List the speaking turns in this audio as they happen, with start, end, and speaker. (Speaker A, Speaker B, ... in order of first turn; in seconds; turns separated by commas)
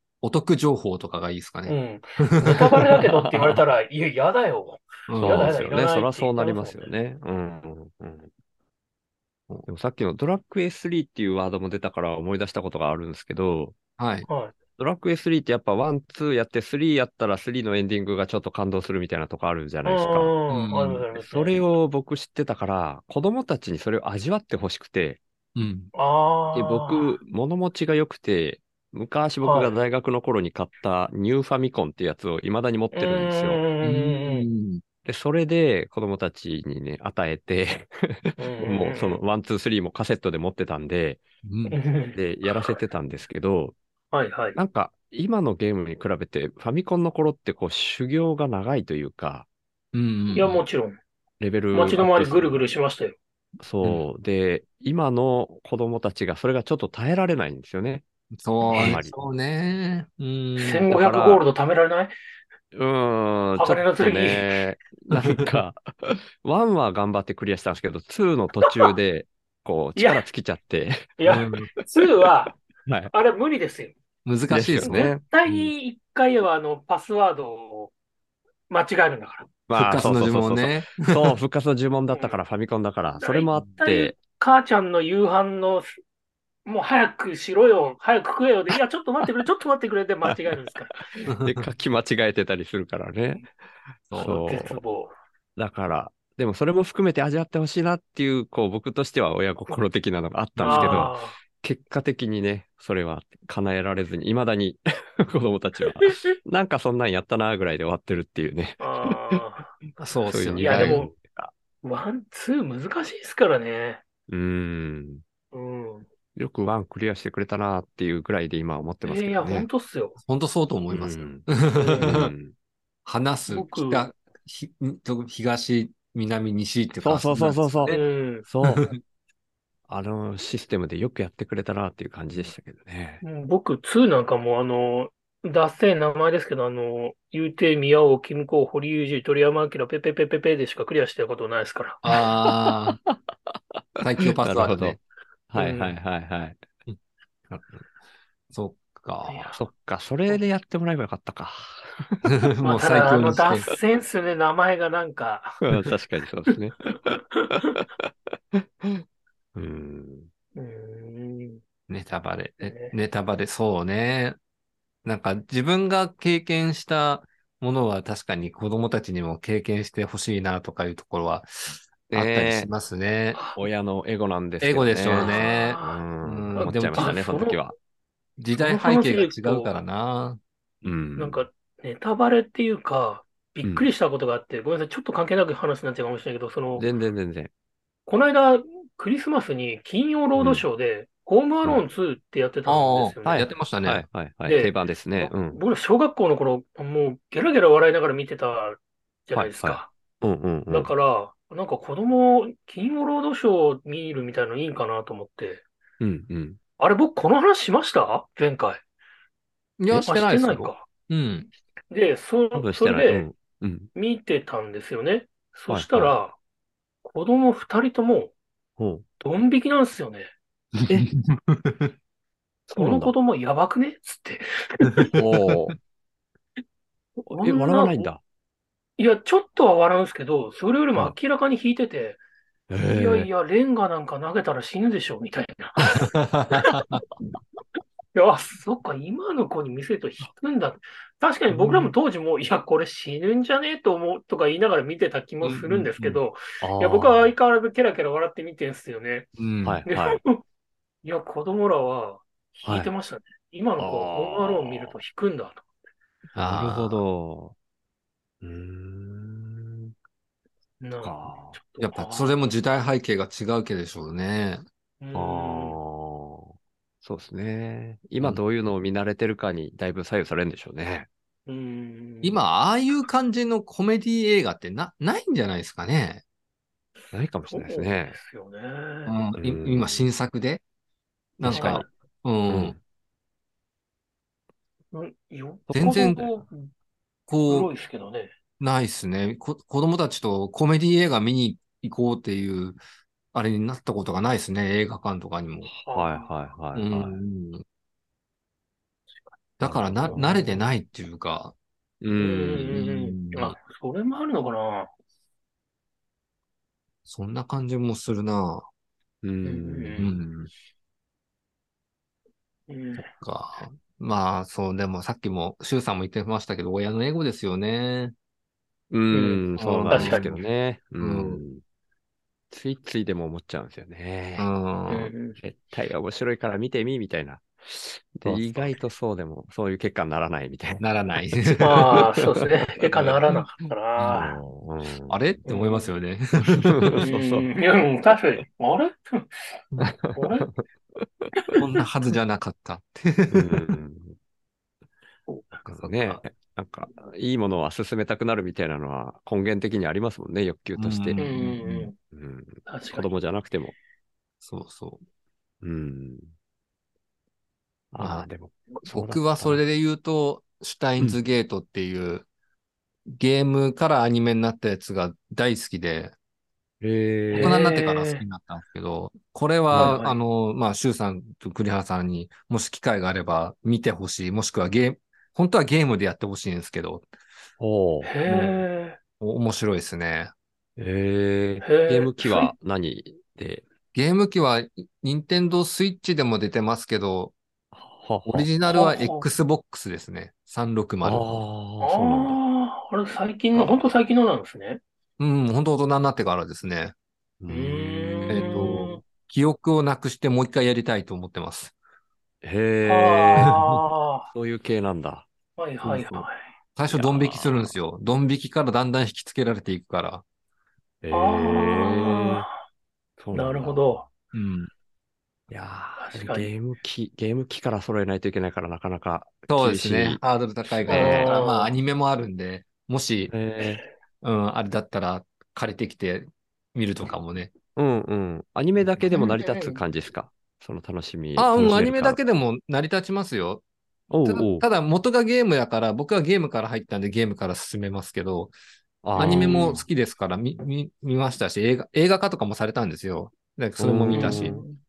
Speaker A: 0.2-3.0, Speaker B: 1.6-6.9, Speaker C: 2.4-3.6, Speaker A: 5.1-5.6, Speaker C: 5.2-8.3, Speaker C: 9.7-13.8, Speaker A: 14.0-14.2, Speaker B: 14.3-14.6, Speaker C: 14.8-20.3, Speaker B: 19.8-21.6, Speaker A: 20.5-21.0, Speaker C: 21.1-25.2, Speaker A: 25.6-25.9, Speaker B: 25.9-27.2, Speaker C: 26.5-33.6, Speaker B: 29.4-29.7, Speaker B: 32.9-34.5, Speaker A: 33.8-34.8, Speaker C: 35.0-41.2, Speaker B: 38.4-39.2, Speaker A: 41.4-41.8, Speaker B: 41.7-42.5, Speaker C: 42.1-43.8, Speaker B: 44.1-44.6, Speaker C: 44.5-49.5, Speaker A: 49.9-50.6, Speaker B: 50.3-51.0, Speaker C: 51.4-52.6, Speaker B: 51.7-53.1, Speaker C: 53.6-58.0, Speaker A: 58.4-60.9, Speaker B: 58.7-59.0, Speaker C: 58.7-59.1, Speaker B: 60.6-62.1, Speaker C: 60.9-61.4, Speaker C: 62.7-71.2, Speaker B: 63.5-64.5, Speaker B: 70.0-70.2, Speaker B: 71.2-73.9, Speaker A: 71.2-71.7, Speaker C: 72.8-73.1, Speaker A: 74.2-75.5, Speaker C: 74.5-75.7, Speaker B: 74.8-77.9, Speaker B: 78.7-79.5, Speaker C: 79.7-84.2, Speaker A: 79.7-81.1, Speaker B: 82.1-82.4, Speaker B: 83.2-86.0, Speaker B: 86.7-91.1, Speaker A: 91.2-91.6, Speaker C: 91.4-93.5, Speaker A: 94.1-94.4, Speaker C: 94.1-94.8, Speaker B: 94.2-95.1, Speaker C: 95.5-109.4, Speaker A: 100.5-101.1, Speaker B: 100.6-101.3, Speaker B: 108.8-109.8, Speaker A: 110.0-111.0, Speaker C: 110.3-111.5, Speaker B: 110.6-111.1, Speaker B: 111.8-114.0, Speaker C: 114.3-115.2, Speaker B: 115.5-116.1, Speaker C: 116.3-119.7, Speaker B: 119.0-120.2, Speaker A: 120.2-122.3, Speaker C: 120.9-121.5, Speaker B: 121.7-122.2, Speaker C: 122.0-122.5, Speaker A: 123.0-128.0, Speaker B: 123.5-124.1, Speaker C: 127.0-128.9, Speaker B: 127.9-128.4, Speaker A: 128.7-128.9, Speaker C: 129.9-133.2, Speaker B: 133.2-142.0, Speaker A: 142.0-143.0, Speaker A: 144.0-145.0, Speaker C: 144.4-145.0, Speaker C: 145.5-146.6, Speaker B: 145.5-145.9, Speaker A: 147.5-147.9, Speaker A: 148.5-149.5, Speaker B: 149.2-149.6, Speaker C: 149.5-152.2, Speaker A: 152.2-153.7, Speaker B: 152.6-155.6, Speaker C: 155.6-159.0, Speaker B: 157.3-157.8, Speaker C: 159.5-160.3, Speaker B: 160.5-161.6, Speaker A: 161.9-164.4, Speaker B: 162.6-162.9, Speaker A: 165.0-173.4, Speaker C: 172.1-172.7, Speaker B: 173.3-173.6, Speaker C: 173.6-177.7, Speaker A: 174.6-177.2, Speaker B: 175.1-176.0, Speaker B: 176.6-177.6, Speaker A: 178.4-180.4, Speaker B: 178.6-179.7, Speaker C: 180.8-181.4, Speaker B: 181.2-186.9, Speaker C: 186.7-187.5, Speaker B: 188.1-193.5, Speaker C: 190.4-190.6, Speaker A: 192.7-194.0, Speaker C: 193.2-195.6, Speaker B: 194.4-199.9, Speaker C: 199.3-200.9, Speaker B: 200.7-205.6, Speaker C: 206.0-206.6, Speaker B: 206.8-208.8, Speaker A: 209.8-211.5, Speaker B: 210.0-210.8, Speaker B: 211.9-213.3, Speaker C: 212.5-213.9, Speaker B: 213.9-216.3, Speaker C: 215.7-216.2, Speaker B: 217.0-218.3, Speaker C: 218.8-219.0, Speaker B: 219.2-220.3, Speaker A: 220.8-221.8, Speaker B: 222.7-225.1, Speaker C: 222.8-223.1, Speaker A: 224.8-225.1, Speaker C: 225.2-225.7, Speaker B: 227.3-228.1, Speaker C: 227.3-228.2, Speaker B: 229.0-232.2, Speaker C: 232.7-233.3, Speaker B: 232.8-236.0, Speaker A: 236.1-237.0, Speaker B: 236.5-236.9, Speaker B: 238.1-249.3, Speaker A: 241.5-241.9, Speaker A: 245.4-246.2, Speaker C: 246.6-247.3, Speaker A: 249.4-249.8, Speaker C: 249.6-250.2, Speaker B: 249.8-250.4, Speaker B: 251.0-255.6, Speaker C: 252.7-252.9, Speaker C: 253.8-255.0, Speaker A: 256.3-257.0, Speaker C: 256.5-257.5, Speaker C: 258.4-259.9, Speaker B: 260.8-262.4, Speaker C: 261.0-261.6, Speaker A: 261.8-264.6, Speaker B: 265.0-265.8, Speaker C: 265.1-271.1, Speaker B: 271.5-272.4, Speaker A: 272.2-276.2, Speaker C: 277.1-278.2, Speaker B: 277.5-279.1, Speaker A: 279.1-280.6, Speaker C: 279.4-280.0, Speaker A: 281.4-282.8, Speaker C: 281.4-281.8, Speaker B: 281.5-281.9, Speaker C: 282.5-282.8, Speaker B: 284.9-286.7, Speaker A: 285.7-286.3, Speaker A: 287.3-287.7, Speaker B: 287.5-288.3, Speaker A: 288.6-292.8, Speaker A: 293.3-295.7, Speaker C: 295.6-297.2, Speaker B: 295.9-296.3, Speaker A: 296.7-297.6, Speaker A: 299.6-301.5, Speaker C: 299.6-300.6, Speaker B: 300.1-300.4, Speaker C: 302.0-302.8, Speaker B: 302.1-304.9, Speaker A: 302.6-303.6, Speaker A: 307.1-308.6, Speaker C: 309.2-310.1, Speaker B: 309.4-310.1, Speaker A: 310.0-310.5, Speaker B: 312.7-313.1, Speaker A: 312.9-318.1, Speaker C: 318.9-321.6, Speaker B: 319.1-320.4, Speaker A: 319.6-320.3, Speaker A: 321.0-321.4, Speaker C: 322.5-324.5, Speaker A: 324.4-325.1, Speaker B: 324.9-325.4, Speaker C: 325.3-330.8, Speaker A: 328.2-328.7, Speaker A: 330.8-332.1, Speaker B: 331.6-334.4, Speaker C: 332.9-333.4, Speaker A: 333.9-334.3, Speaker C: 334.1-335.1, Speaker A: 335.1-336.9, Speaker B: 335.5-335.9, Speaker C: 336.7-337.5, Speaker B: 337.0-339.6, Speaker C: 339.8-340.3, Speaker B: 340.1-340.5, Speaker C: 341.0-341.3, Speaker A: 341.6-343.5, Speaker C: 343.3-344.1, Speaker A: 345.6-346.2, Speaker C: 345.6-351.2, Speaker A: 350.8-351.9, Speaker B: 351.2-351.9, Speaker C: 352.1-353.8, Speaker B: 352.6-353.1, Speaker A: 354.4-355.0, Speaker C: 355.6-356.3, Speaker C: 357.9-359.6, Speaker A: 358.0-358.3, Speaker A: 358.9-362.2, Speaker A: 363.1-366.1, Speaker C: 366.8-367.6, Speaker B: 367.3-368.2, Speaker A: 367.4-377.1, Speaker C: 369.7-370.0, Speaker B: 369.7-370.1, Speaker C: 377.6-378.1, Speaker B: 378.0-379.0, Speaker A: 378.2-378.6, Speaker A: 379.2-380.3, Speaker C: 380.8-383.6, Speaker B: 381.6-382.5, Speaker A: 383.9-387.3, Speaker C: 387.7-388.5, Speaker A: 388.2-391.4, Speaker B: 388.6-389.3, Speaker C: 391.0-392.4, Speaker B: 391.8-394.8, Speaker A: 393.5-393.9, Speaker A: 395.2-396.9, Speaker C: 397.4-398.8, Speaker B: 397.5-399.0, Speaker A: 398.3-401.7, Speaker C: 402.4-403.6, Speaker B: 402.8-404.3, Speaker A: 403.4-403.8, Speaker C: 404.3-405.3, Speaker B: 405.6-406.5, Speaker A: 405.8-410.2, Speaker C: 406.9-407.7, Speaker C: 411.0-412.4, Speaker B: 411.1-412.5, Speaker C: 413.2-414.1, Speaker B: 413.3-414.0, Speaker A: 414.3-414.7, Speaker C: 415.5-420.2, Speaker B: 416.0-416.5, Speaker A: 419.5-423.3, Speaker C: 420.8-421.3, Speaker B: 420.9-421.7, Speaker C: 423.3-423.8, Speaker A: 424.2-427.5, Speaker C: 427.8-432.2, Speaker A: 429.0-429.4, Speaker B: 429.1-429.8, Speaker A: 431.4-433.6, Speaker C: 434.1-434.6, Speaker A: 434.2-438.5, Speaker C: 439.0-439.9, Speaker A: 439.1-444.6, Speaker B: 439.2-439.7, Speaker C: 443.8-444.6, Speaker B: 444.1-444.8